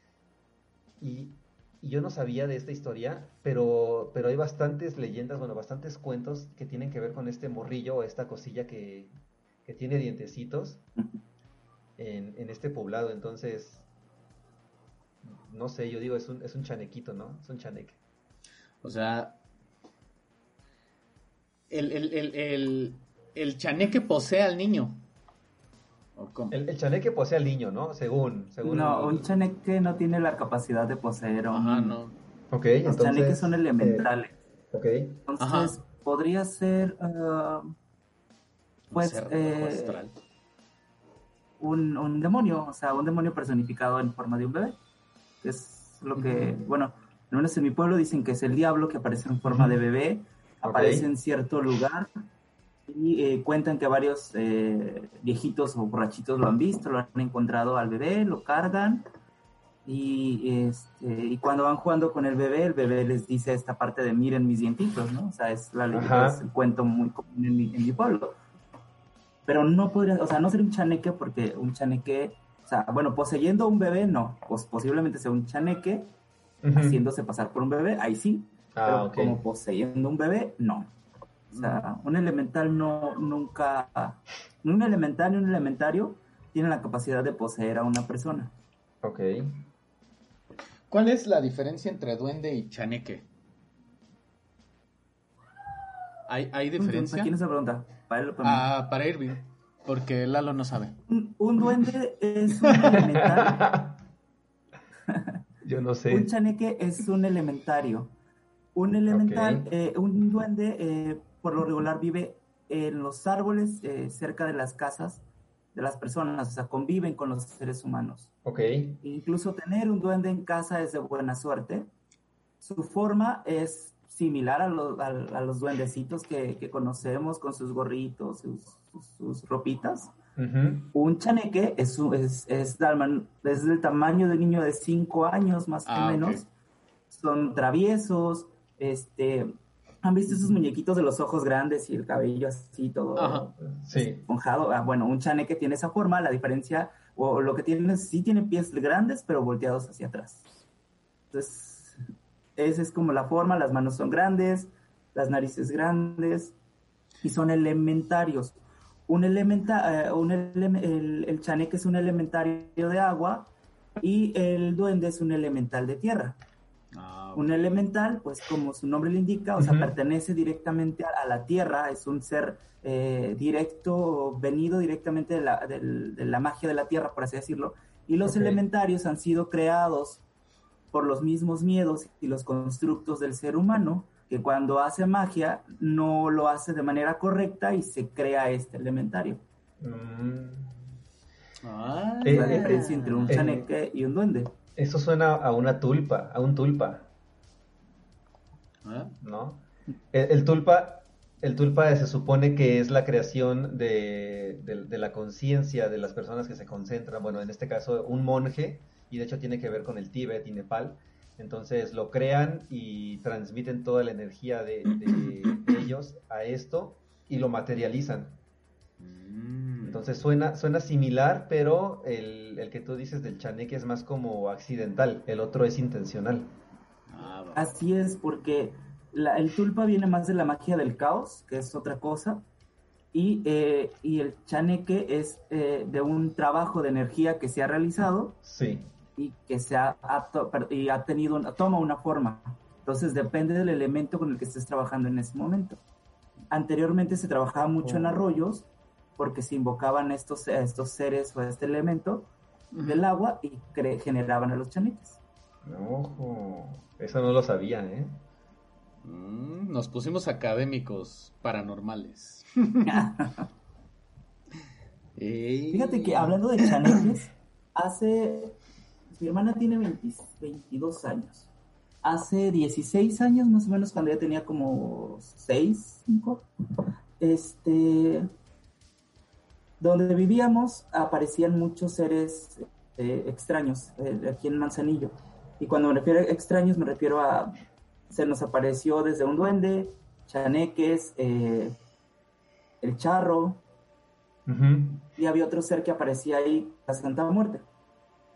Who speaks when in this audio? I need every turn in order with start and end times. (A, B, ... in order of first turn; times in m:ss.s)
0:01.0-0:09.1 A
0:09.6-0:10.8 A
0:12.0-0:13.8 A
0:15.2-0:18.0 A
0:18.8-0:19.4 B
0:21.7-0:25.0 B
0:26.2-0:26.6 B
0:26.5-0:29.3 A
0:28.6-0:32.0 C
0:31.5-0:32.2 B
0:32.5-0:34.1 A
0:32.8-0:34.4 C
0:34.7-0:35.2 A
0:35.2-0:37.7 C
0:35.4-0:35.8 B
0:38.9-0:40.1 B
0:38.9-0:40.0 C
0:41.6-0:44.8 C
0:45.4-0:52.1 C
0:46.2-0:46.5 B
0:50.6-0:51.1 A
0:52.9-0:59.0 C
0:59.8-1:08.4 C
1:05.9-1:06.4 A
1:09.5-1:16.1 C
1:16.6-1:17.0 A
1:16.7-1:20.9 C
1:18.8-1:19.4 A
1:21.5-1:21.8 B
1:21.5-1:28.5 C
1:29.0-1:29.6 A
1:30.9-1:33.2 B
1:36.3-1:37.3 B
1:36.8-1:38.7 C
1:38.4-1:41.0 B
1:41.1-1:43.6 C
1:43.4-1:44.0 A
1:45.1-1:45.4 C
1:45.6-1:46.3 A
1:46.1-1:48.1 C
1:48.7-1:55.2 C
1:49.1-1:49.7 A
1:55.7-1:58.3 C
1:58.4-1:59.0 A
1:59.0-2:01.9 C
2:02.6-2:10.1 C
2:10.4-2:10.9 A
2:10.9-2:16.5 C
2:15.8-2:16.4 B
2:17.1-2:30.4 C
2:23.2-2:23.5 B
2:23.7-2:24.2 A
2:31.3-2:32.0 C
2:32.6-2:36.5 C
2:37.2-2:46.4 C
2:46.9-2:47.8 B
2:47.3-3:00.2 C
2:58.3-2:58.6 A
3:00.9-3:09.4 C
3:09.8-3:10.8 A
3:11.6-3:13.4 B
3:12.2-3:13.6 A
3:12.2-3:14.5 C
3:14.8-3:17.1 A
3:18.8-3:19.2 B
3:19.2-3:38.4 A
3:39.0-3:40.0 B
3:39.8-3:46.5 A
3:47.1-3:47.7 B
3:47.5-3:52.4 C
3:53.1-3:58.4 C
3:58.4-3:58.9 A
3:59.2-4:05.8 C
4:06.5-4:12.3 C
4:07.8-4:08.3 A
4:12.7-4:13.0 B
4:12.8-4:15.2 C
4:15.6-4:18.2 A
4:19.0-4:23.1 B
4:22.8-4:23.4 C
4:25.2-4:26.4 B
4:25.7-4:28.6 C
4:29.1-4:31.5 C
4:32.0-4:36.4 C
4:37.2-4:38.3 C
4:39.8-4:47.6 C
4:48.1-4:51.8 C
4:52.8-4:53.6 C
4:54.5-4:55.1 A
4:55.2-4:57.6 C